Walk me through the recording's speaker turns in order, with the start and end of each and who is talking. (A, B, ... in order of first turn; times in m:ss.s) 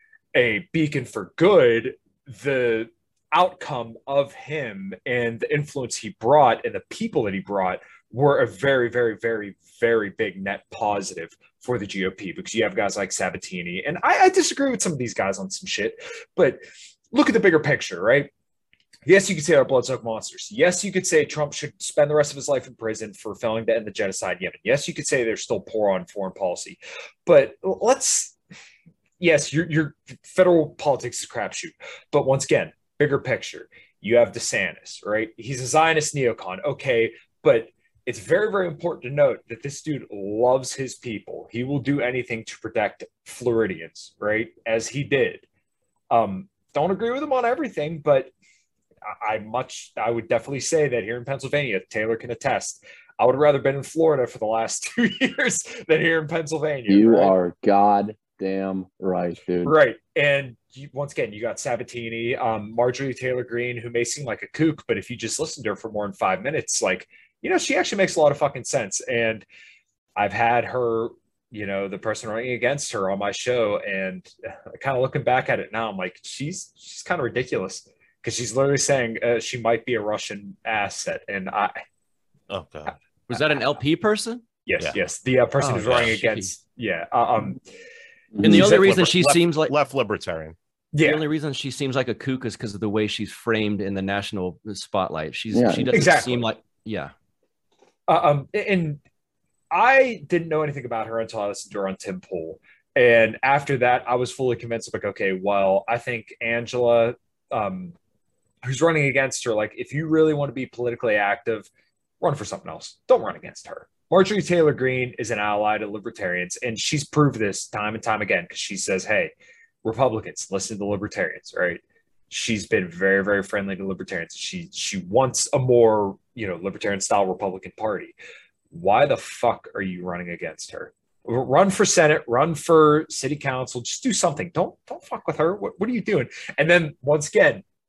0:00.3-0:18.3 A
0:19.0-0:28.4 A
0:29.2-0:45.4 A
0:46.1-0:48.3 A
0:49.0-0:57.3 A
0:56.9-0:59.7 B
0:59.6-1:09.4 A
1:10.2-1:21.8 A
1:22.5-1:23.0 C
1:23.3-1:24.4 D
1:24.6-1:27.6 A
1:25.6-1:26.5 D
1:28.4-1:28.7 B
1:28.4-1:29.7 D
1:28.5-1:30.6 C
1:30.9-1:31.2 A
1:31.0-1:37.1 D
1:35.5-1:35.9 B
1:35.9-1:36.4 A
1:38.1-1:39.0 A
1:39.7-1:47.9 A
1:48.6-1:51.7 A
1:52.2-1:59.3 A
1:59.8-2:08.2 A
2:08.7-2:17.6 A